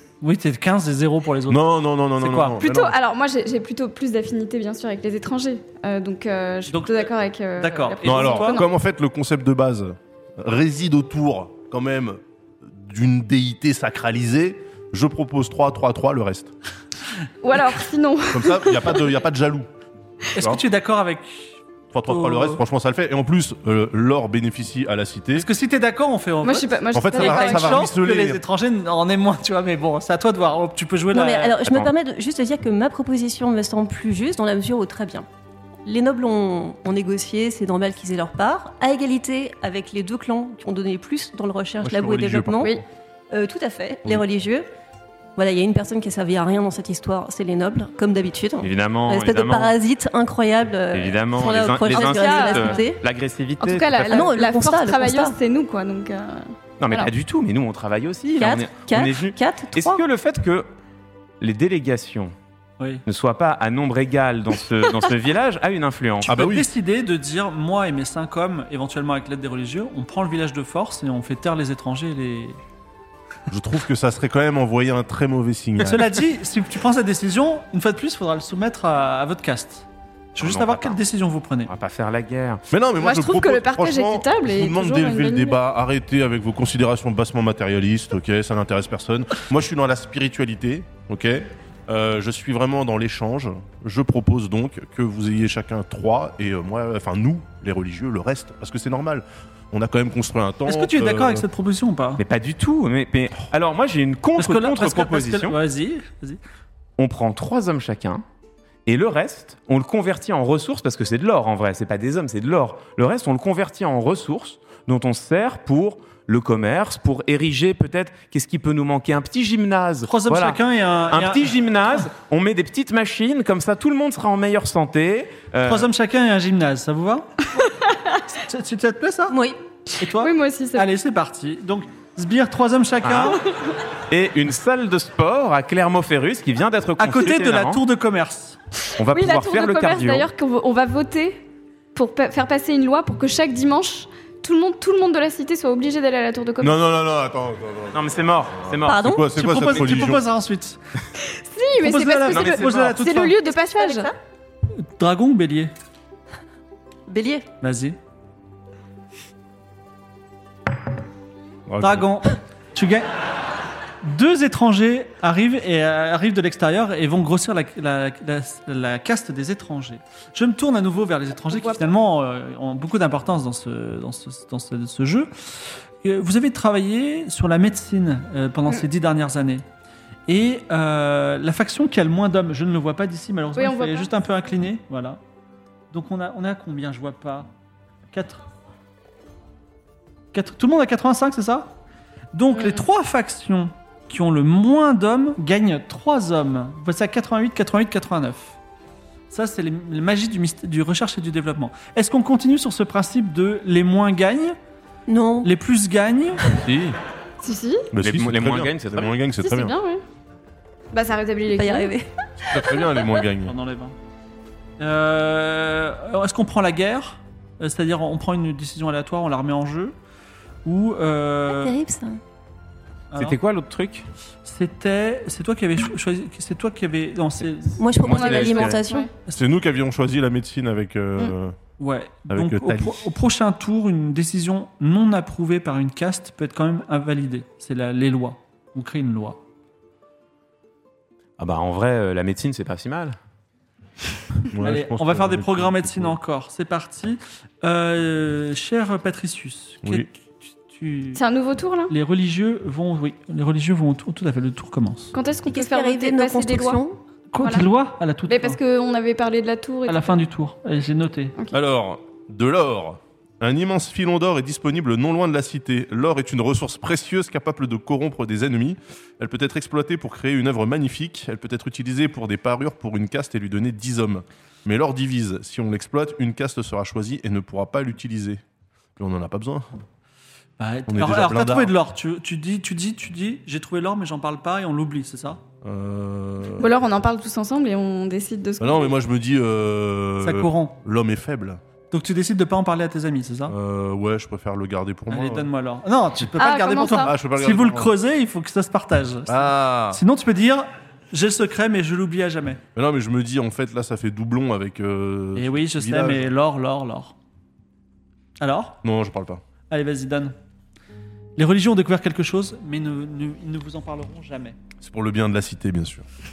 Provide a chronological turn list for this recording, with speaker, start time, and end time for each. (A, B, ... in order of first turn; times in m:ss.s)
0:00.2-0:02.6 A
0:01.5-0:02.9 B
0:02.6-0:08.7 C
0:06.7-0:08.6 A
0:08.0-0:16.5 B
0:17.4-0:19.1 C
0:18.3-0:19.7 B
0:20.3-0:22.6 A
0:21.9-0:25.5 B
0:25.4-0:31.6 A
0:26.4-0:27.9 C
0:26.9-0:28.4 B
0:31.1-0:35.3 D
0:35.8-0:42.7 D
0:41.8-0:42.8 B
0:43.3-0:44.7 D
0:45.4-0:53.0 D
0:48.6-0:49.7 E
0:50.9-0:54.2 E
0:51.9-0:52.8 C
0:53.6-0:57.1 C
0:54.1-0:55.4 D
0:56.8-1:00.7 E
0:58.4-1:00.0 D
1:01.4-1:02.3 E
1:02.8-1:03.0 A
1:03.0-1:06.4 E
1:06.2-1:12.6 A
1:06.2-1:06.7 B
1:13.5-1:16.2 B
1:15.8-1:21.7 A
1:20.4-1:21.0 E
1:21.7-1:22.6 E
1:22.7-1:41.4 B
1:23.0-1:25.6 C
1:40.7-1:42.2 A
1:42.2-1:45.6 E
1:44.4-1:46.4 A
1:47.0-1:48.2 E
1:48.8-2:05.9 E
2:00.1-2:02.0 A
2:05.6-2:07.5 A
2:07.6-2:08.0 C
2:08.3-2:09.4 A
2:09.3-2:09.6 D
2:10.0-2:13.4 A
2:10.2-2:10.8 C
2:13.0-2:13.4 E
2:14.1-2:17.8 E
2:17.0-2:18.6 A
2:19.0-2:20.3 E
2:19.1-2:26.8 C
2:26.6-2:28.1 B
2:27.9-2:29.0 E
2:28.6-2:30.2 B
2:28.8-2:29.3 D
2:29.3-2:30.8 A
2:31.2-2:34.1 C
2:31.8-2:33.4 A
2:32.3-2:33.0 E
2:33.4-2:34.2 D
2:34.8-2:35.7 A
2:37.1-2:37.4 D
2:37.6-2:38.0 A
2:41.7-2:42.1 B
2:41.8-2:43.1 A
2:44.0-2:59.6 A
3:00.3-3:05.2 A
3:03.6-3:04.1 C
3:05.9-3:07.5 A
3:08.1-3:08.4 A
3:10.3-3:11.7 A
3:12.3-3:18.6 A
3:12.5-3:12.8 C
3:19.3-3:24.6 A
3:25.1-3:25.5 D
3:25.4-3:26.4 A
3:26.6-3:27.0 B
3:27.4-3:27.9 C
3:27.9-3:29.7 B
3:28.0-3:29.2 E
3:29.4-3:30.0 C
3:30.9-3:31.9 C
3:31.5-3:32.6 D
3:32.4-3:33.5 B
3:33.4-3:33.9 A
3:34.8-3:39.9 A
3:40.6-3:41.7 A
3:41.5-3:42.2 D
3:43.1-3:43.4 A
3:43.1-3:44.0 E
3:44.4-3:47.8 A
3:47.8-3:49.1 D
3:48.0-3:49.1 C
3:48.0-3:48.8 E
3:49.3-3:51.6 B
3:51.8-3:59.4 A
3:52.3-3:53.0 B
4:01.4-4:03.2 E
4:04.5-4:06.2 B
4:04.6-4:11.2 A
4:09.8-4:10.1 B
4:11.1-4:11.9 C
4:11.9-4:15.1 A
4:15.1-4:16.8 C
4:15.5-4:17.0 D
4:17.3-4:18.6 A
4:17.4-4:17.7 C
4:18.3-4:20.1 C
4:19.9-4:21.3 A
4:21.5-4:38.4 B
4:39.0-4:39.7 B
4:40.6-4:45.4 A
4:40.9-4:41.7 B
4:45.6-4:46.7 B
4:46.6-4:49.0 C
4:48.6-4:51.6 B
4:50.2-4:50.8 A
4:51.9-4:53.5 A
4:53.5-4:55.5 B
4:55.1-5:02.6 A
4:56.4-4:57.1 C
4:57.0-4:57.9 B
4:59.3-5:00.0 B
5:02.7-5:06.3 B
5:05.4-5:07.1 A
5:08.4-5:08.8 A
5:08.8-5:09.4 B
5:09.7-5:10.3 A
5:11.4-5:14.6 A
5:14.8-5:16.0 B